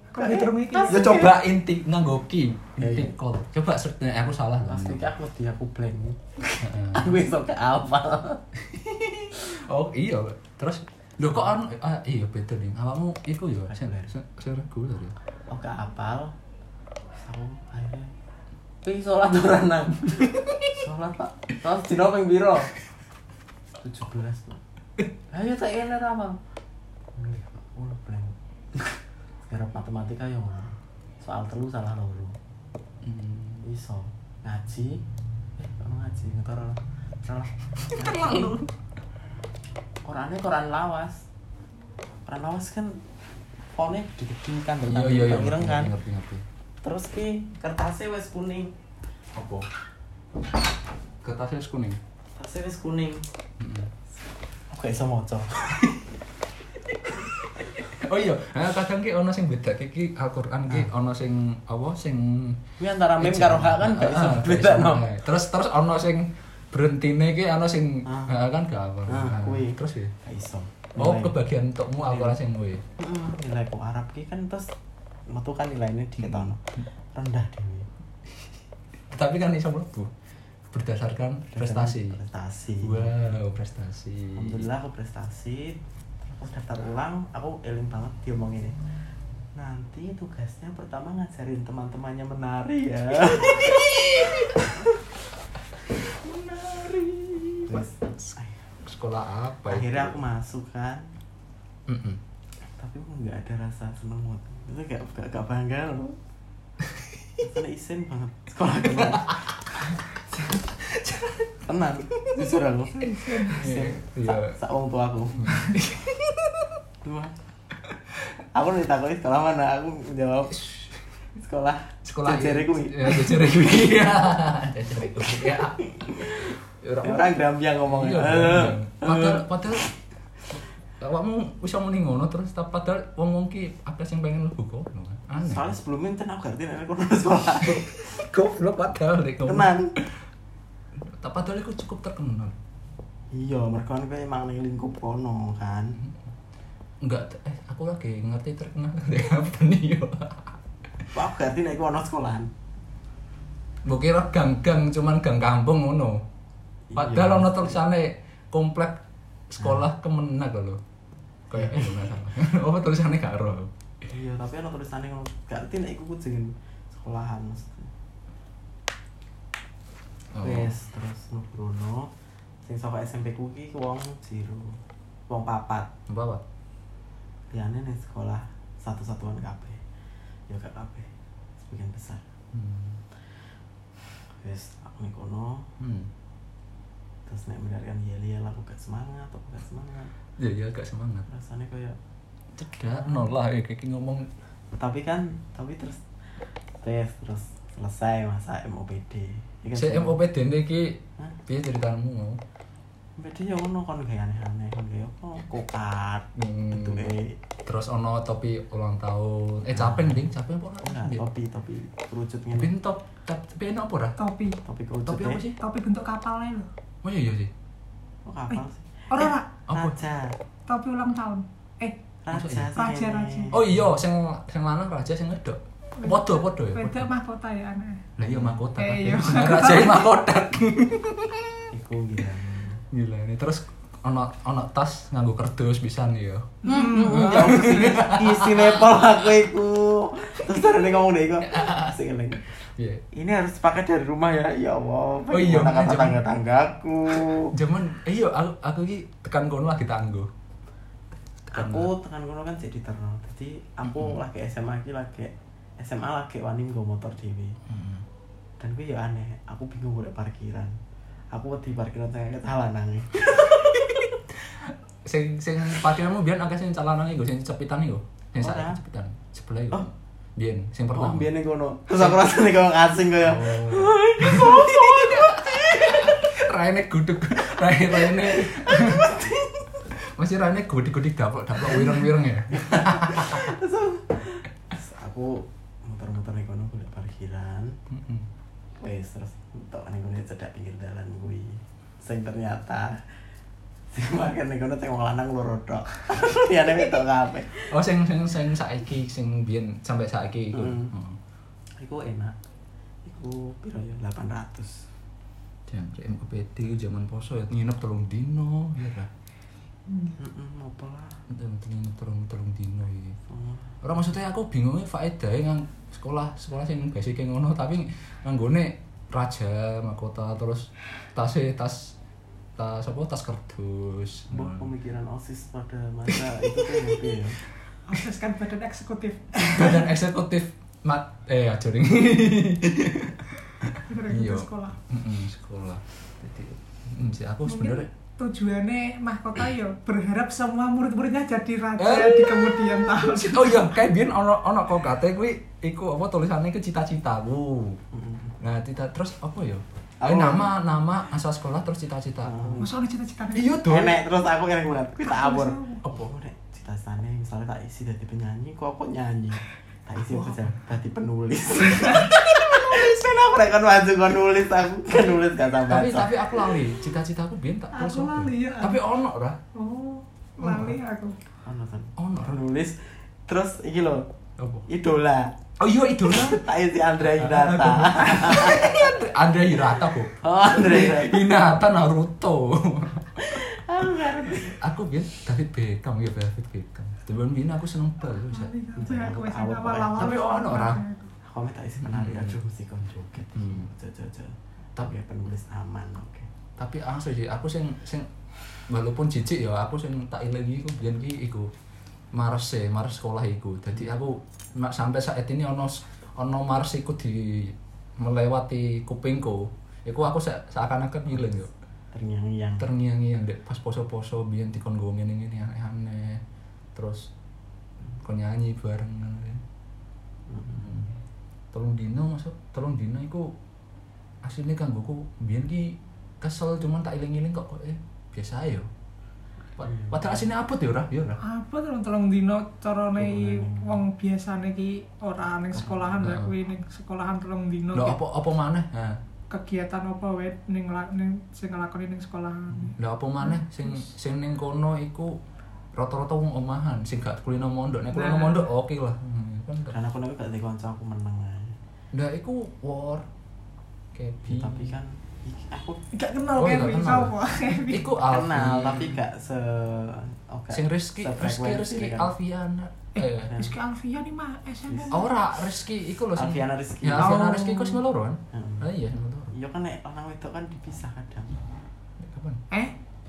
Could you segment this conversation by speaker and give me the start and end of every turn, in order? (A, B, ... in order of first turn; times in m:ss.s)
0:00.1-0:01.2 A
0:00.2-0:01.3 B
0:00.8-0:05.1 C
0:02.8-0:03.2 B
0:04.6-0:08.4 B
0:06.6-0:07.2 C
0:08.6-0:15.2 C
0:13.7-0:14.1 B
0:15.5-0:16.4 B
0:17.1-0:18.1 B
0:18.8-0:22.7 B
0:23.8-0:24.6 B
0:25.3-0:26.4 B
0:27.2-0:28.4 B
0:29.5-0:32.4 B
0:33.0-0:33.6 C
0:33.6-0:35.0 B
0:35.6-0:38.6 B
0:37.9-0:38.7 C
0:40.0-0:41.3 B
0:42.3-0:43.0 B
0:43.8-0:45.9 B
0:44.8-0:46.4 C
0:46.8-0:48.8 B
0:49.4-0:49.7 C
0:51.2-0:52.0 C
0:52.4-0:53.3 B
0:53.6-0:53.9 C
0:54.7-0:56.0 B
0:57.6-1:02.7 C
1:02.8-1:05.1 B
1:03.2-1:10.2 C
1:08.0-1:08.4 B
1:09.1-1:11.4 B
1:11.0-1:12.8 C
1:12.0-1:12.4 B
1:13.0-1:14.7 B
1:15.3-1:17.9 B
1:16.2-1:16.6 C
1:19.1-1:20.1 C
1:20.7-1:22.2 C
1:21.5-1:23.3 B
1:22.8-1:24.7 C
1:24.4-1:28.8 B
1:29.6-1:34.9 B
1:33.4-1:34.6 C
1:36.2-1:38.6 B
1:36.5-1:40.2 C
1:39.7-1:41.1 B
1:41.9-1:42.2 C
1:42.7-1:46.2 B
1:46.8-1:47.4 C
1:47.4-1:49.4 B
1:49.0-1:50.0 C
1:50.7-1:52.4 C
1:51.6-1:55.7 B
1:53.0-1:53.6 A
1:53.3-1:54.6 C
1:55.4-1:56.7 C
1:57.0-1:57.4 B
1:58.6-2:00.6 B
2:00.5-2:01.0 C
2:01.4-2:03.7 B
2:02.0-2:09.9 C
2:05.8-2:09.5 B
2:11.0-2:15.7 C
2:15.4-2:18.0 B
2:17.7-2:19.7 C
2:19.4-2:19.9 B
2:21.1-2:22.6 C
2:23.3-2:26.0 B
2:27.0-2:31.1 C
2:31.1-2:32.5 B
2:33.8-2:36.2 C
2:36.9-2:37.8 B
2:37.0-2:40.8 C
2:41.5-2:43.7 C
2:41.5-2:42.0 B
2:44.1-2:47.9 B
2:50.3-2:50.7 C
2:50.4-2:52.1 B
2:52.6-2:55.9 B
2:56.1-2:56.4 C
2:57.5-2:59.8 B
3:00.5-3:02.2 B
3:02.5-3:03.0 C
3:04.2-3:05.7 B
3:05.8-3:06.1 C
3:07.3-3:10.1 B
3:10.4-3:11.3 C
3:11.3-3:12.0 B
3:12.6-3:14.3 C
3:12.9-3:13.3 B
3:14.7-3:16.0 B
3:16.8-3:20.2 B
3:19.8-3:22.4 C
3:23.2-3:27.4 B
3:26.4-3:27.1 C
3:27.6-3:31.3 C
3:29.7-3:30.3 B
3:30.8-3:32.7 B
3:32.5-3:34.2 C
3:34.2-3:34.6 A
3:34.6-3:35.4 B
3:35.1-3:35.6 C
3:35.6-3:36.7 A
3:37.0-3:37.5 C
3:38.2-3:40.4 B
3:39.1-3:39.5 A
3:39.7-3:40.0 C
3:40.7-3:42.0 A
3:42.2-3:43.8 B
3:42.3-3:42.7 C
3:42.7-3:43.5 A
3:43.5-3:47.1 C
3:46.0-3:48.1 A
3:48.2-3:51.7 C
3:48.2-3:48.7 B
3:48.8-3:50.1 A
3:51.7-3:52.8 B
3:52.9-3:58.8 C
3:56.6-3:57.4 A
3:56.6-4:02.4 B
4:01.5-4:01.9 C
4:02.8-4:03.0 C
4:03.1-4:07.5 B
4:05.3-4:06.2 C
4:07.4-4:10.3 C
4:11.5-4:11.9 C
4:11.5-4:17.6 B
4:17.7-4:18.0 C
4:18.6-4:20.8 B
4:21.3-4:24.2 B
4:24.5-4:31.3 C
4:28.4-4:28.8 B
4:30.9-4:36.3 B
4:31.9-4:32.2 C
4:33.2-4:39.4 C
4:37.9-4:39.7 B
4:39.9-4:43.5 C
4:41.7-4:41.9 B
4:42.5-4:47.8 B
4:47.9-4:48.3 C
4:48.8-4:53.0 B
4:53.9-4:57.7 B
4:57.7-5:01.2 C
5:00.5-5:00.9 B
5:01.8-5:02.4 B
5:03.0-5:04.9 B
5:05.7-5:09.1 C
5:09.9-5:10.2 A
5:10.2-5:11.2 B
5:11.3-5:13.2 C
5:13.3-5:13.7 B
5:13.8-5:22.0 C
5:22.6-5:24.7 C
5:24.3-5:27.4 B
5:26.1-5:27.0 C
5:27.9-5:29.9 A
5:29.5-5:37.9 C
5:33.9-5:34.8 A
5:37.5-5:43.8 A
5:41.8-5:47.8 C
5:47.9-5:48.4 B
5:48.4-5:52.6 C
5:50.0-5:50.5 B
5:52.2-5:52.7 B
5:52.6-5:53.6 A
5:53.3-5:54.0 C
5:53.6-6:06.3 B
5:55.0-5:55.8 A
5:55.8-5:56.1 C
6:00.1-6:00.4 C
6:01.8-6:02.1 C
6:05.7-6:09.4 C
6:07.7-6:08.8 A
6:09.5-6:11.2 A
6:10.4-6:10.7 C
6:11.4-6:14.1 B
6:12.0-6:12.4 C
6:14.4-6:14.7 C
6:14.7-6:15.3 B
6:15.6-6:16.4 C
6:16.1-6:19.0 B
6:17.0-6:23.4 C
6:20.1-6:21.4 B
6:23.2-6:24.6 B
6:24.3-6:28.5 C
6:28.3-6:31.1 A
6:28.8-6:30.2 B
6:30.0-6:30.8 C
6:31.2-6:36.3 B
6:31.8-6:32.4 C
6:33.3-6:33.7 C
6:36.6-6:38.1 C
6:38.7-6:41.5 C
6:42.1-6:51.5 C
6:51.9-6:52.7 B
6:52.6-6:56.2 C
6:56.8-6:57.1 C
6:58.0-6:59.4 C
7:00.3-7:00.7 B
7:00.5-7:00.9 C
7:01.5-7:03.3 C
7:04.2-7:08.7 C
7:09.6-7:11.2 C
7:09.6-7:10.2 B
7:11.2-7:18.0 A
7:13.0-7:13.9 B
7:15.6-7:16.0 B
7:16.0-7:16.3 C
7:17.7-7:19.0 C
7:19.3-7:23.8 A
7:22.7-7:25.2 C
7:25.8-7:29.8 C
7:27.9-7:28.4 A
7:29.7-7:31.6 B
7:31.9-7:33.1 C
7:33.9-7:34.8 C
7:34.2-7:35.8 B
7:35.9-7:37.9 A
7:36.4-7:39.0 C
7:38.1-7:42.1 B
7:40.5-7:43.4 C
7:43.0-7:45.1 A
7:44.7-7:45.0 B
7:44.9-7:49.3 C
7:46.2-7:47.3 B
7:47.0-7:47.8 A
7:48.3-7:48.7 B
7:49.3-7:51.4 B
7:52.0-7:52.4 C